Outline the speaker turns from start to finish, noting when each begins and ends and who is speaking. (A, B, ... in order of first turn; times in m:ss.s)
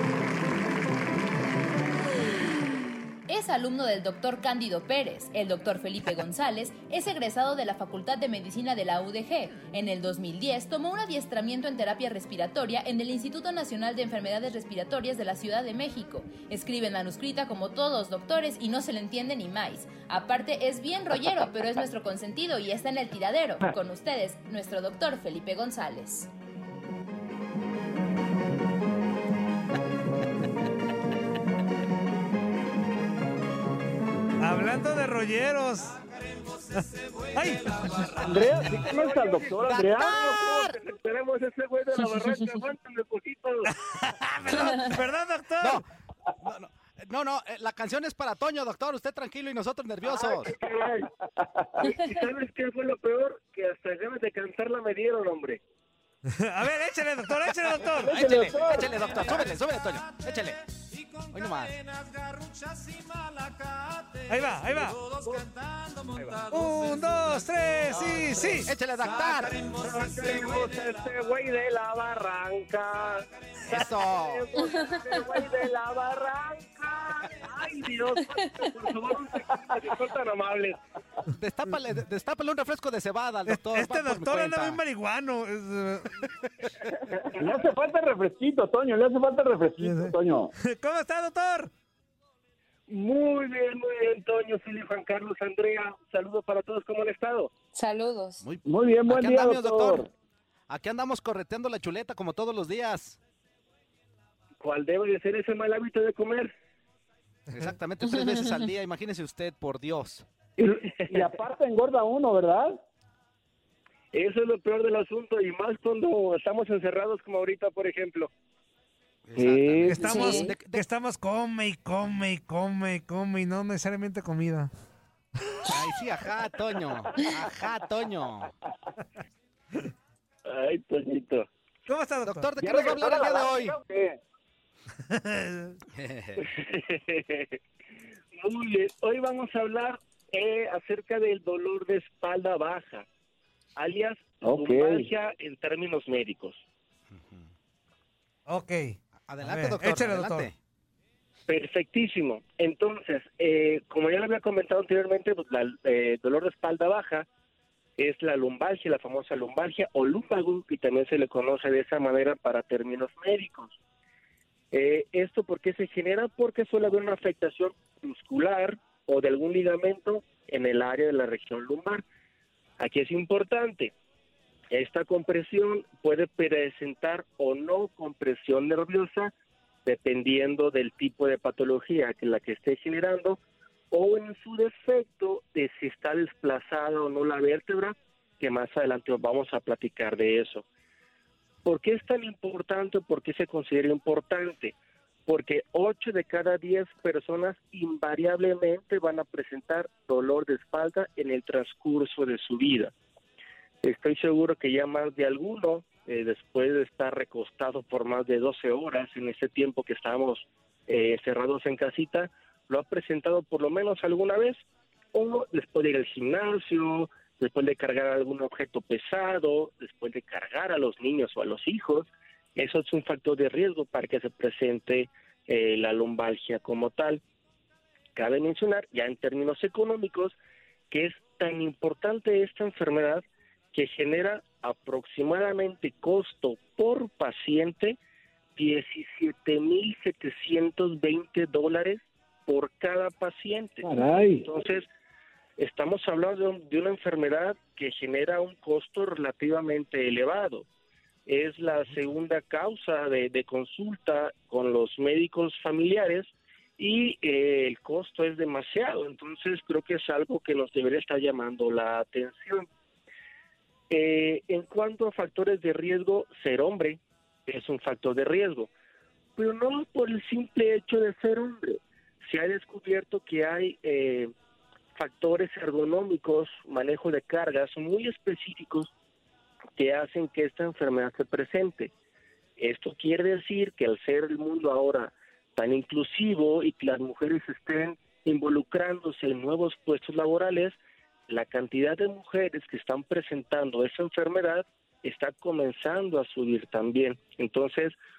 0:03.3-0:26.3 A
0:34.4-0:36.0 B
0:36.7-0:38.2 B
0:37.9-0:38.4 C
0:38.2-0:40.2 D
0:38.7-0:43.7 E
0:39.6-0:40.8 C
0:44.2-0:45.0 C
0:44.2-0:45.8 B
0:45.6-0:45.8 C
0:46.4-0:50.6 C
0:50.0-0:51.1 E
0:51.6-0:52.0 D
0:51.8-0:55.6 E
0:56.3-0:58.2 B
0:57.8-1:00.6 C
0:57.9-0:59.0 E
1:01.3-1:01.8 C
1:04.3-1:05.1 B
1:05.2-1:05.5 E
1:06.1-1:06.4 E
1:06.5-1:08.7 B
1:08.6-1:09.7 C
1:09.6-1:20.8 E
1:13.6-1:14.4 C
1:14.8-1:15.4 A
1:18.4-1:18.6 A
1:21.3-1:24.8 C
1:23.5-1:26.2 B
1:27.1-1:27.4 E
1:27.4-1:30.5 D
1:29.8-1:31.7 B
1:32.9-1:37.5 E
1:37.7-1:38.4 A
1:38.4-1:40.1 C
1:38.6-1:40.1 D
1:40.7-1:43.2 C
1:44.6-1:46.5 E
1:47.5-1:50.2 C
1:50.6-1:52.8 D
1:51.0-1:51.2 E
1:54.1-1:58.3 E
1:59.3-2:00.8 C
1:59.4-2:00.1 D
1:59.8-2:04.7 B
2:00.0-2:00.6 A
2:05.7-2:08.5 C
2:10.4-2:11.5 E
2:11.9-2:12.5 B
2:12.2-2:13.8 C
2:12.6-2:14.2 D
2:15.1-2:15.8 B
2:15.9-2:16.5 C
2:16.4-2:17.6 E
2:18.4-2:23.1 E
2:23.8-2:26.6 E
2:24.4-2:25.1 D
2:27.1-2:27.5 C
2:28.5-2:30.5 B
2:29.3-2:30.6 C
2:31.5-2:37.3 E
2:38.0-2:43.8 E
2:44.7-2:52.0 E
2:52.8-2:53.9 E
2:54.7-2:59.3 E
2:59.8-3:10.6 E
3:11.6-3:14.8 E
3:15.3-3:22.9 E
3:23.8-3:34.6 E
3:35.1-3:47.2 E
3:48.1-3:50.4 E
3:50.9-3:58.0 E
3:58.6-4:03.9 E
4:03.8-4:04.5 D
4:04.4-4:04.9 E
4:05.6-4:10.6 E
4:11.2-4:22.7 E
4:23.9-4:28.7 E
4:29.4-4:34.3 E
4:34.9-4:38.9 E
4:39.8-4:41.9 E
4:42.6-4:50.8 E
4:51.3-4:58.0 E